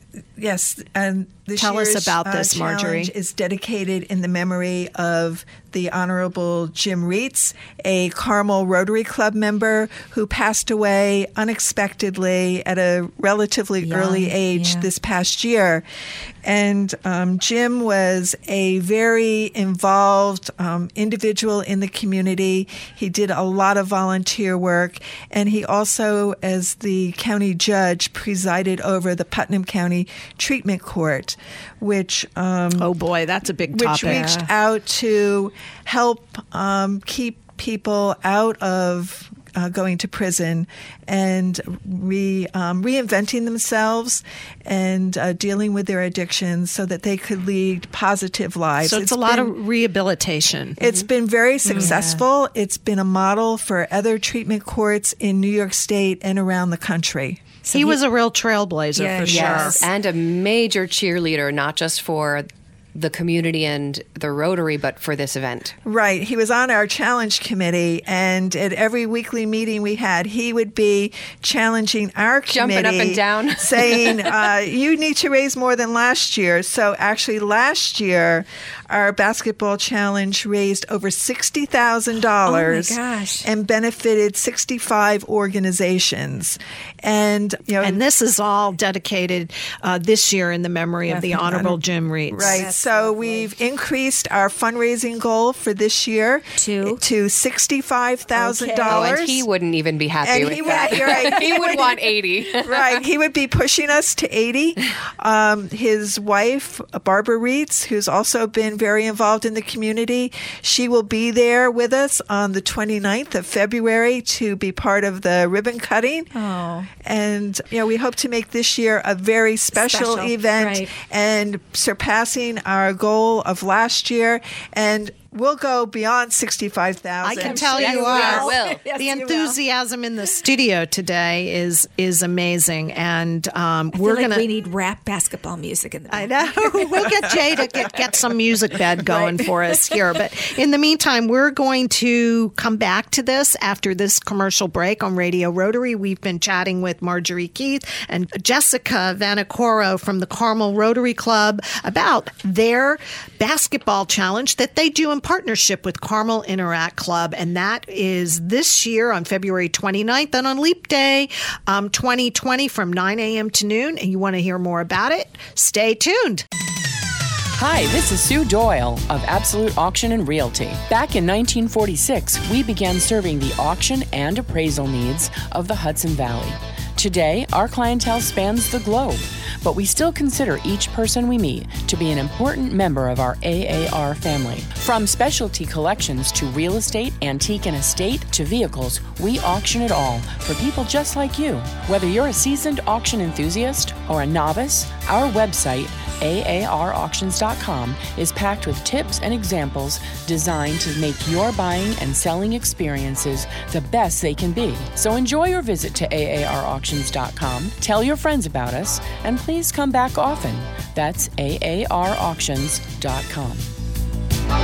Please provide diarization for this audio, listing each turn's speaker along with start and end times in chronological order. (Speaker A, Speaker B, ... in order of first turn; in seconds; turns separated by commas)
Speaker A: 0.4-15.8, Speaker B: 1.6-3.1, Speaker C: 13.8-14.9, Speaker A: 16.4-32.9, Speaker B: 32.8-34.3, Speaker A: 33.7-49.5, Speaker C: 34.0-34.5, Speaker B: 48.8-50.8, Speaker A: 50.8-57.5, Speaker B: 51.7-52.0, Speaker C: 51.7-52.2, Speaker C: 57.6-58.0, Speaker B: 57.7-59.8, Speaker C: 59.0-59.9, Speaker D: 59.3-65.8, Speaker A: 65.8-88.0, Speaker D: 72.5-74.4, Speaker C: 82.5-83.5, Speaker B: 87.8-92.6, Speaker C: 91.1-91.8, Speaker A: 92.3-99.5, Speaker C: 92.4-93.5, Speaker C: 96.6-97.0, Speaker C: 98.3-99.2, Speaker D: 98.9-103.0, Speaker A: 100.2-102.0, Speaker C: 100.4-101.8, Speaker A: 102.5-116.3, Speaker C: 116.3-116.9, Speaker A: 117.0-128.5, Speaker C: 119.8-120.9, Speaker B: 127.2-134.5, Speaker C: 127.3-129.6, Speaker D: 127.8-128.8, Speaker C: 133.9-137.3, Speaker B: 136.1-166.5, Speaker C: 139.0-139.8, Speaker E: 167.6-213.7